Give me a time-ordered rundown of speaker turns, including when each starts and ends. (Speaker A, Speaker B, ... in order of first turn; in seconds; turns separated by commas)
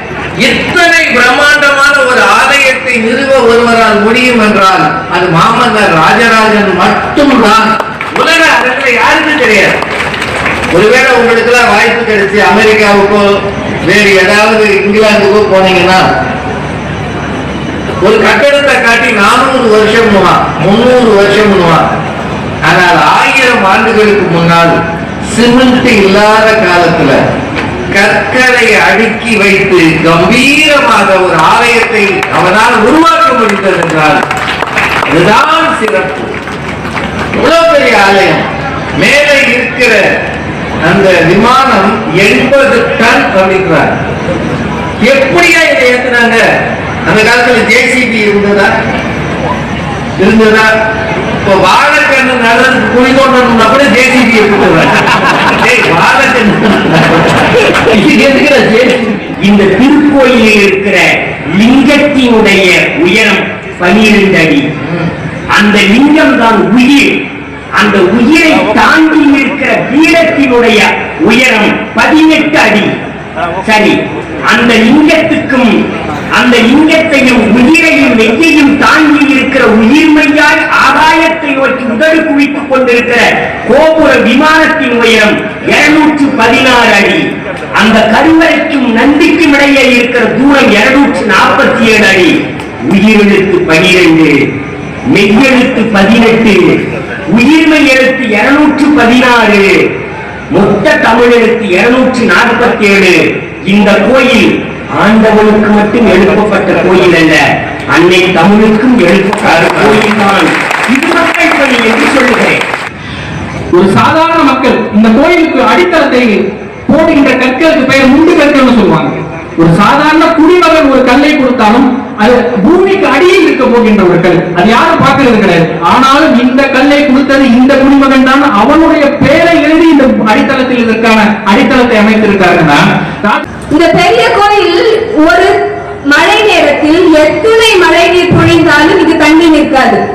Speaker A: 0.4-9.8, Speaker A: 10.7-13.2, Speaker A: 13.9-16.0, Speaker A: 18.0-21.9, Speaker A: 22.6-24.8, Speaker A: 25.3-27.2, Speaker A: 27.9-34.2, Speaker A: 35.1-36.3, Speaker A: 37.4-38.5, Speaker A: 39.0-40.0, Speaker A: 40.8-43.9, Speaker A: 45.0-46.4, Speaker A: 47.1-48.7, Speaker A: 50.2-50.7, Speaker A: 51.4-58.9, Speaker B: 58.1-61.0, Speaker B: 61.6-64.7, Speaker A: 64.8-65.1, Speaker B: 65.5-67.1, Speaker B: 67.8-72.9, Speaker B: 73.6-74.0, Speaker B: 74.5-75.8, Speaker B: 76.4-92.3, Speaker B: 92.9-94.3, Speaker B: 95.1-96.6, Speaker B: 97.3-99.7, Speaker B: 100.5-107.4, Speaker B: 107.9-112.6, Speaker A: 109.4-110.1, Speaker C: 113.7-133.4, Speaker D: 133.7-135.5, Speaker D: 136.1-140.0